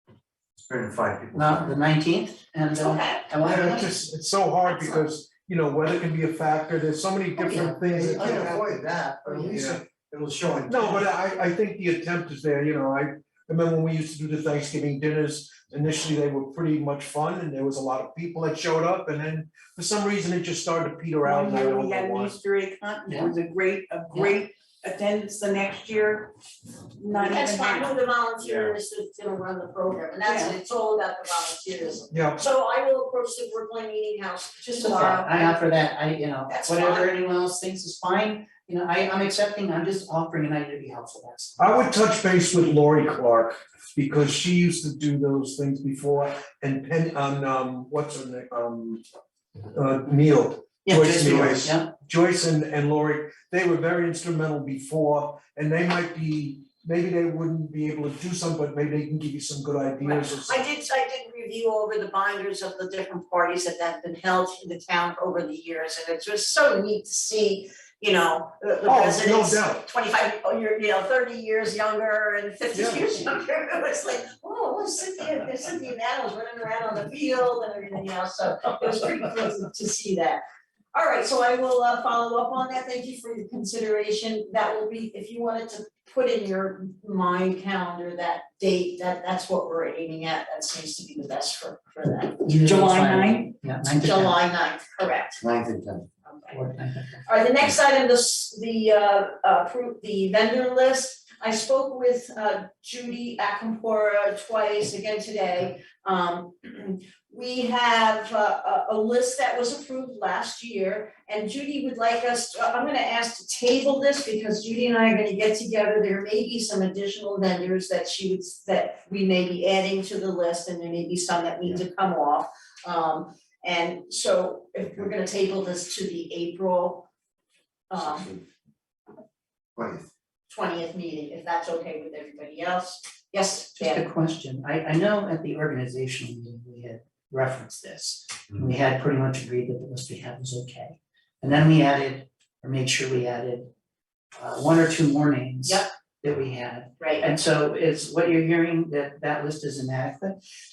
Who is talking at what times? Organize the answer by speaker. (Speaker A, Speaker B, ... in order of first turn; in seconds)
Speaker A: 0.6-1.8, 7.5-11.1, 28.4-28.7, 95.4-96.1, 128.0-128.4, 129.8-130.1
Speaker B: 1.3-3.9, 23.1-23.3, 34.7-41.6, 50.8-51.9, 92.4-94.3, 96.5-97.2, 133.8-143.7, 144.3-150.4
Speaker C: 2.8-3.2, 4.6-5.1, 27.1-35.6, 36.5-37.1, 60.0-80.4, 80.9-92.5, 93.9-95.4, 96.2-96.6, 97.2-127.1, 127.9-128.3, 130.5-134.1, 147.0-147.3
Speaker D: 3.4-8.8, 9.3-9.8, 10.6-22.4, 32.1-32.4, 41.6-49.0, 49.7-60.6, 68.8-69.8, 72.7-73.1
Speaker E: 21.2-26.3, 27.0-28.0, 30.2-30.5, 92.4-93.5